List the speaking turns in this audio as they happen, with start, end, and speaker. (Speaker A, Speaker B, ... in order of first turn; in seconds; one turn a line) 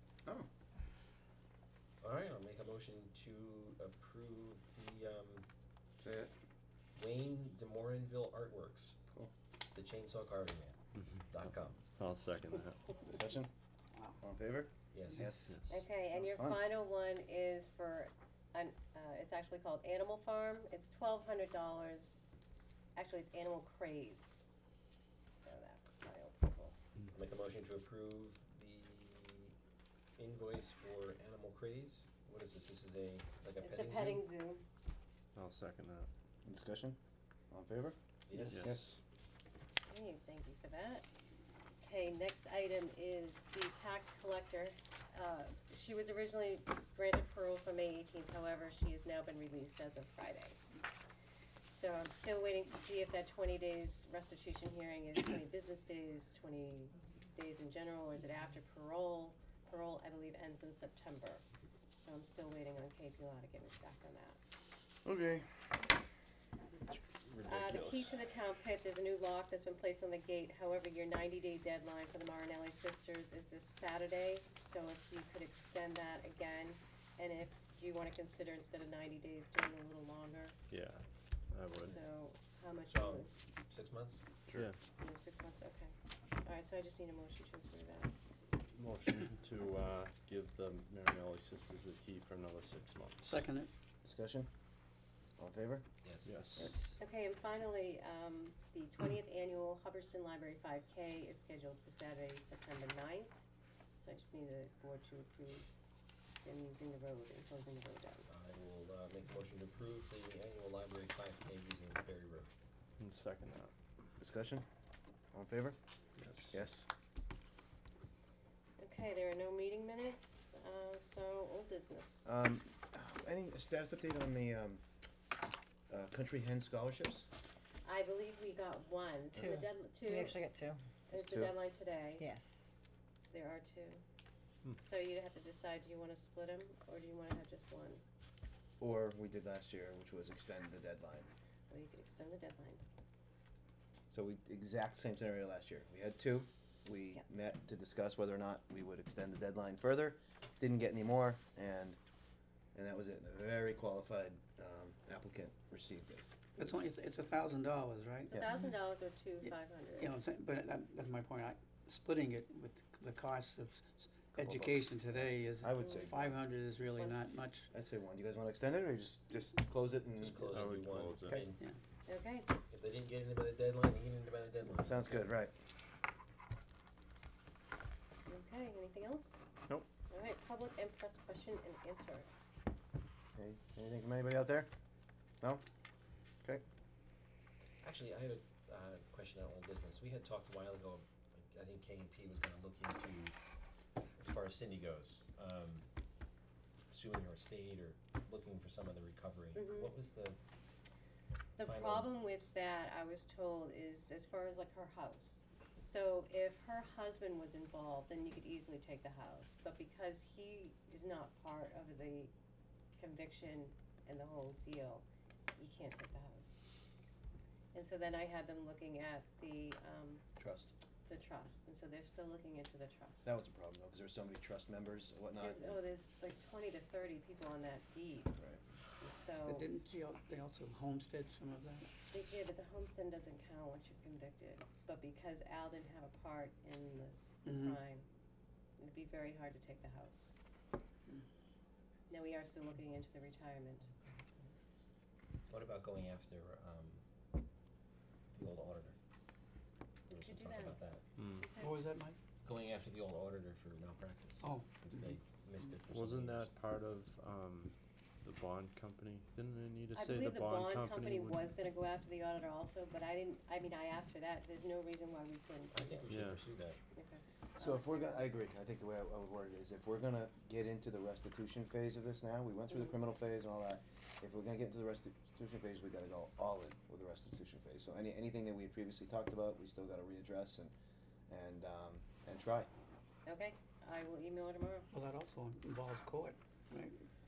Speaker A: 2.0-5.5
Speaker B: 6.0-6.3
Speaker A: 6.9-9.0
Speaker A: 9.7-10.8
Speaker C: 11.0-12.8
Speaker A: 11.3-11.8
Speaker B: 13.1-13.5
Speaker B: 14.2-16.6
Speaker A: 14.9-15.3
Speaker C: 15.4-15.8
Speaker D: 15.7-22.1
Speaker D: 22.9-24.4
Speaker D: 25.3-26.7
Speaker A: 27.1-29.5
Speaker A: 30.2-34.2
Speaker D: 33.6-34.6
Speaker C: 35.3-36.1
Speaker B: 36.4-37.0
Speaker B: 37.5-38.0
Speaker A: 38.3-38.9
Speaker E: 38.3-38.7
Speaker B: 38.6-39.0
Speaker D: 39.9-41.0
Speaker D: 41.8-50.6
Speaker D: 51.6-64.4
Speaker B: 65.0-65.4
Speaker C: 67.3-68.1
Speaker D: 67.4-80.5
Speaker C: 80.7-82.0
Speaker D: 81.8-83.3
Speaker A: 82.8-84.2
Speaker C: 84.5-84.8
Speaker D: 85.0-88.1
Speaker C: 88.7-93.4
Speaker E: 93.2-93.7
Speaker B: 94.0-94.5
Speaker B: 95.4-95.8
Speaker A: 96.0-96.6
Speaker C: 96.2-96.7
Speaker D: 97.0-103.4
Speaker D: 104.0-105.7
Speaker D: 106.4-108.3
Speaker A: 108.3-112.5
Speaker C: 113.0-113.7
Speaker B: 114.2-114.6
Speaker B: 115.3-115.8
Speaker C: 116.2-116.7
Speaker B: 116.5-116.8
Speaker D: 118.8-122.3
Speaker B: 122.2-124.8
Speaker B: 125.9-127.3
Speaker D: 127.8-130.4
Speaker F: 129.3-130.8
Speaker D: 131.1-132.2
Speaker B: 131.1-131.5
Speaker F: 132.2-132.7
Speaker D: 133.2-134.0
Speaker D: 134.8-138.0
Speaker B: 138.8-141.3
Speaker D: 141.7-142.8
Speaker B: 144.1-152.0
Speaker B: 152.7-156.2
Speaker E: 156.6-158.7
Speaker D: 158.3-160.1
Speaker E: 159.4-167.7
Speaker B: 164.3-165.0
Speaker B: 165.6-166.4
Speaker D: 165.8-166.1
Speaker D: 166.8-167.2
Speaker B: 167.7-170.4
Speaker A: 170.2-171.6
Speaker C: 170.4-171.4
Speaker D: 172.1-172.5
Speaker A: 172.7-175.3
Speaker B: 174.8-175.5
Speaker D: 178.3-179.4
Speaker D: 180.1-182.3
Speaker B: 183.3-184.7
Speaker A: 187.8-193.3
Speaker A: 194.2-195.9
Speaker A: 196.9-200.4
Speaker D: 199.5-199.9
Speaker D: 201.6-212.3
Speaker A: 201.6-202.1
Speaker D: 213.0-215.0
Speaker D: 215.6-216.6
Speaker D: 217.7-220.2
Speaker B: 220.4-220.7
Speaker D: 221.1-223.4
Speaker B: 223.2-225.8
Speaker D: 225.4-228.3
Speaker B: 228.3-228.6
Speaker D: 229.0-229.7
Speaker E: 229.4-231.8
Speaker D: 232.1-238.1
Speaker E: 237.4-237.8
Speaker D: 238.8-240.3
Speaker D: 242.1-243.9
Speaker A: 245.5-247.0
Speaker A: 248.3-248.9
Speaker A: 250.1-251.0
Speaker D: 250.2-250.8
Speaker C: 251.2-251.5
Speaker D: 251.4-251.7
Speaker E: 251.6-252.2
Speaker A: 252.4-256.5
Speaker E: 254.4-254.7
Speaker C: 255.9-261.4
Speaker D: 259.9-266.1
Speaker A: 265.7-266.8
Speaker C: 266.1-266.4
Speaker D: 266.9-268.2
Speaker B: 267.6-280.7
Speaker B: 281.3-282.7
Speaker D: 283.2-284.9
Speaker E: 284.9-286.9